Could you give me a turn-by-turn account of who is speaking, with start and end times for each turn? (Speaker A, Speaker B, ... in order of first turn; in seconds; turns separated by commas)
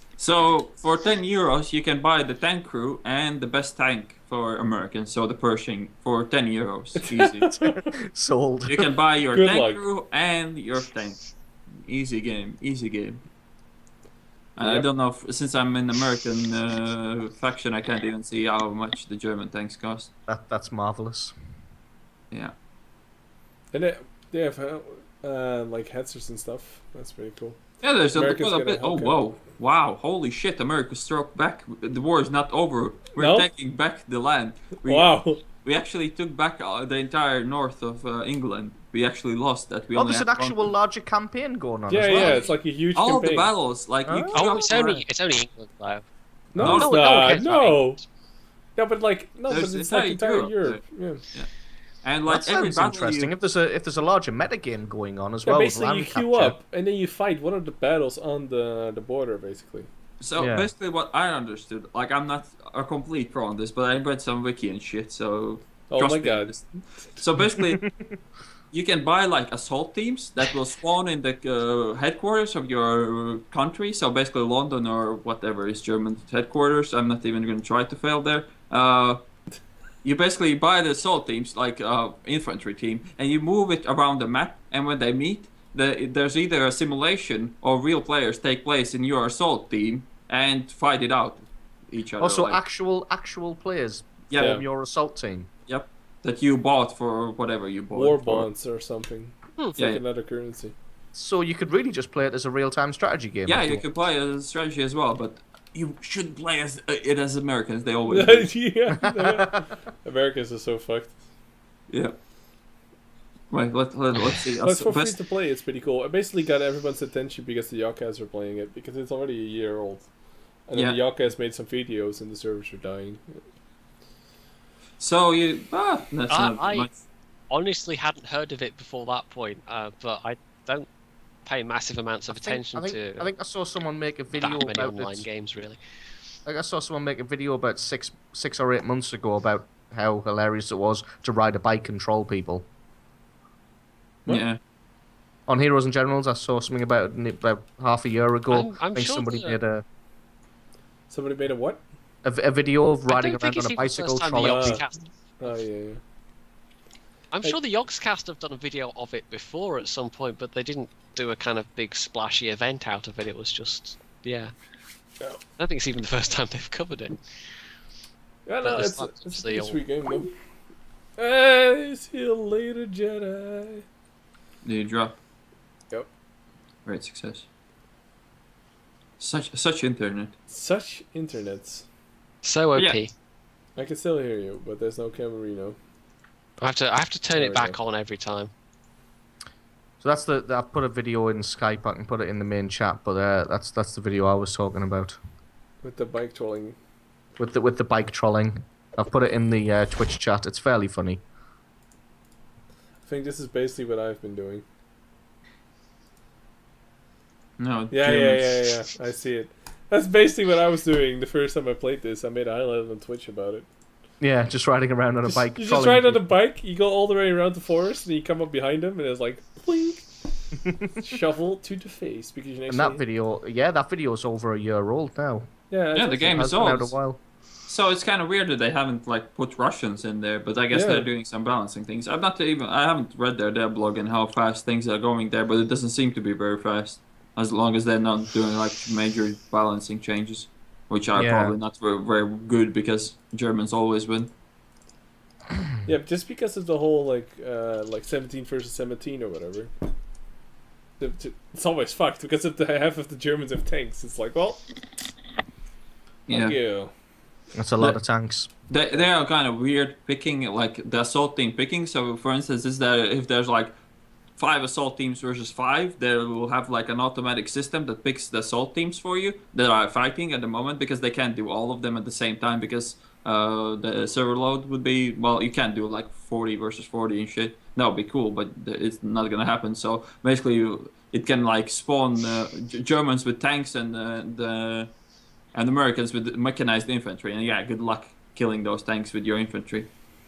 Speaker A: 0.2-7.6, Speaker B: 7.0-7.9, Speaker C: 7.5-8.9, Speaker A: 8.7-13.2, Speaker B: 9.3-9.8, Speaker A: 14.6-20.1, Speaker B: 14.6-14.9, Speaker C: 20.3-21.4, Speaker B: 23.7-27.6, Speaker A: 27.8-40.7, Speaker B: 28.1-29.1, Speaker B: 33.1-33.5, Speaker B: 34.8-35.4, Speaker C: 39.9-42.5, Speaker B: 41.9-43.5, Speaker A: 42.9-45.0, Speaker C: 44.0-44.8, Speaker D: 44.3-46.0, Speaker B: 46.5-48.0, Speaker A: 46.6-46.9, Speaker C: 46.6-47.4, Speaker D: 46.7-48.0, Speaker B: 48.8-51.2, Speaker A: 49.5-51.5, Speaker A: 52.0-53.3, Speaker C: 52.3-56.5, Speaker B: 55.4-59.9, Speaker A: 60.2-67.9, Speaker C: 60.4-60.7, Speaker B: 65.9-66.5, Speaker C: 67.6-68.1, Speaker A: 68.7-79.2, Speaker A: 80.0-92.6, Speaker C: 92.2-95.5, Speaker A: 94.3-94.6, Speaker B: 94.3-94.6, Speaker A: 95.7-98.5, Speaker B: 97.9-100.7, Speaker A: 99.8-100.0, Speaker C: 101.1-103.8, Speaker A: 103.5-108.5, Speaker B: 108.1-111.2, Speaker C: 109.1-109.6, Speaker A: 111.9-112.2, Speaker A: 113.5-115.2, Speaker B: 114.6-120.1, Speaker B: 120.7-123.4, Speaker A: 120.7-121.0, Speaker A: 125.0-127.0, Speaker D: 126.3-126.9, Speaker D: 127.5-130.9, Speaker D: 131.4-133.3, Speaker C: 132.3-135.2, Speaker D: 134.4-135.8, Speaker C: 136.4-142.7, Speaker A: 144.3-144.6, Speaker C: 145.5-149.8, Speaker D: 148.5-149.6, Speaker B: 151.1-151.8, Speaker C: 152.2-154.8, Speaker D: 153.1-155.6, Speaker B: 154.3-154.8, Speaker B: 155.4-156.0, Speaker D: 157.3-164.5, Speaker D: 165.6-167.2, Speaker B: 168.4-170.3, Speaker D: 168.6-170.2, Speaker B: 171.2-173.8, Speaker A: 174.6-175.2, Speaker A: 176.8-177.4, Speaker A: 179.2-180.3, Speaker B: 180.5-181.8, Speaker D: 182.4-183.1, Speaker B: 183.8-185.8, Speaker D: 186.6-188.5, Speaker B: 187.3-187.8, Speaker C: 190.0-195.2, Speaker B: 195.8-196.8, Speaker C: 197.3-201.2, Speaker B: 203.0-204.6, Speaker A: 207.6-208.7, Speaker B: 207.9-213.7, Speaker C: 214.2-216.2, Speaker B: 215.2-223.0, Speaker C: 222.7-225.5, Speaker B: 225.7-226.8, Speaker A: 225.9-227.0, Speaker C: 226.3-227.2, Speaker A: 227.7-244.3, Speaker B: 230.7-231.1, Speaker C: 241.1-241.6, Speaker B: 245.8-249.7, Speaker B: 251.0-254.6, Speaker A: 256.3-256.6, Speaker B: 256.3-256.9, Speaker C: 257.5-258.5, Speaker A: 258.5-263.7, Speaker A: 264.4-284.9, Speaker A: 285.5-289.9